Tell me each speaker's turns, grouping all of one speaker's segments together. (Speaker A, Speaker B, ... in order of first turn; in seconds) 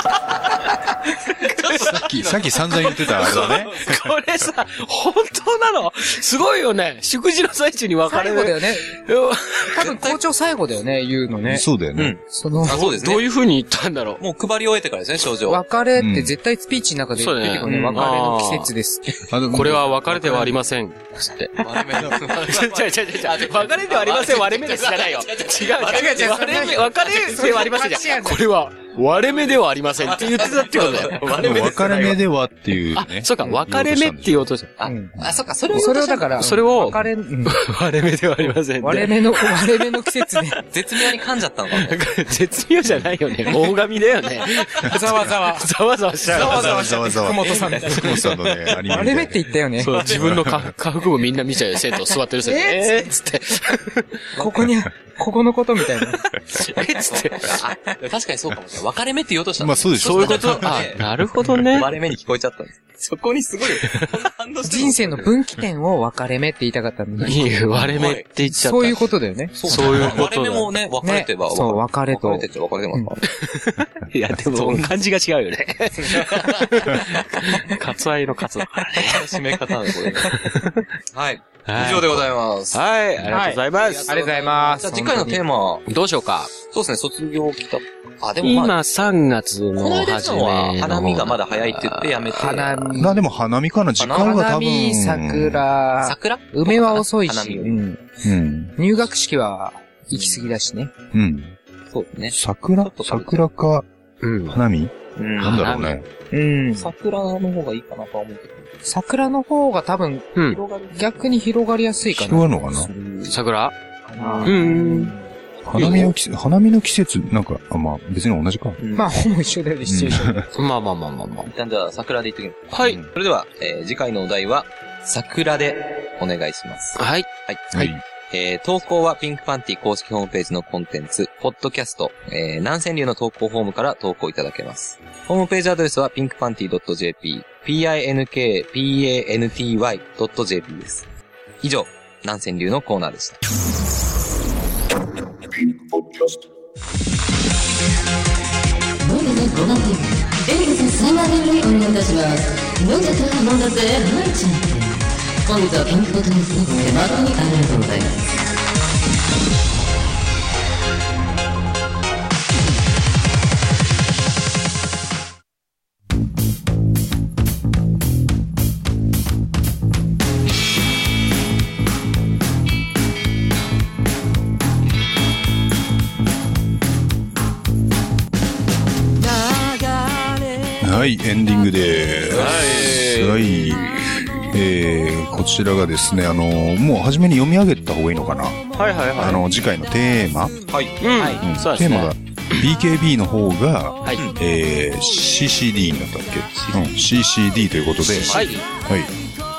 Speaker A: 1.3-4.0, 9.8-10.2, 11.9-13.2, 14.2-15.6, 17.6-18.1, 21.6-27.0, 30.0-32.2, 34.8-36.5, 40.7-42.0, 46.3-48.7, 50.0-50.4, 54.3-54.7, 57.0-65.4, 67.8-68.2, 69.5-73.3, 74.5-74.9, 76.0-77.7, 78.9-85.8, 86.6-88.8, 89.8-93.0, 94.0-94.4, 96.0-97.8, 100.1-100.4, 101.9-103.4, 105.2-105.8, 106.7-108.7, 110.5-111.0, 114.2-115.1, 118.8-119.1, 121.5-141.1, 141.6-143.4, 182.3-184.2, 190.7-191.0, 196.6-196.9, 198.1-198.6
Speaker B: 1.5-2.0, 2.6-9.8, 12.7-14.2, 17.2-18.7, 19.5-31.9, 32.9-34.7, 36.4-39.7, 41.7-46.7, 49.8-54.1, 56.5-57.6, 60.0-61.9, 67.2-69.1, 69.6-70.7, 73.4-80.8, 81.7-84.1, 85.9-86.5, 88.4-92.7, 104.2-104.6, 105.4-106.0, 110.3-110.6, 113.3-113.7, 114.4-115.1, 115.7-116.1, 120.5-121.5, 122.7-123.0, 127.0-127.3, 182.3-183.1, 188.8-189.4, 191.0-192.6, 198.3-198.6
Speaker C: 1.8-3.9, 11.5-12.2, 15.9-16.3, 19.3-20.5, 31.4-34.5, 46.3-49.5, 50.0-50.7, 59.6-60.9, 69.9-70.2, 93.0-95.6, 98.2-98.7, 101.1-101.5, 102.3-103.8, 104.5-106.1, 112.1-112.9, 115.7-118.8, 119.8-120.4, 122.8-123.1, 127.7-128.0, 180.8-183.9, 184.4-190.6, 191.4-199.1
Speaker D: 8.1-8.9, 9.7-11.6, 12.3-12.8, 15.5-19.1, 25.9-28.4, 34.8-35.1, 35.7-37.6, 38.8-40.6, 44.9-45.7, 46.3-48.2, 48.8-50.0, 52.4-53.6, 54.4-56.2, 64.6-67.5, 68.5-69.5, 71.0-73.1, 83.3-85.4, 92.3-93.2, 94.1-98.0, 98.8-100.9, 106.3-106.9, 108.8-110.4, 110.9-113.2, 114.1-115.1, 118.9-120.5
Speaker E: 149.0-158.2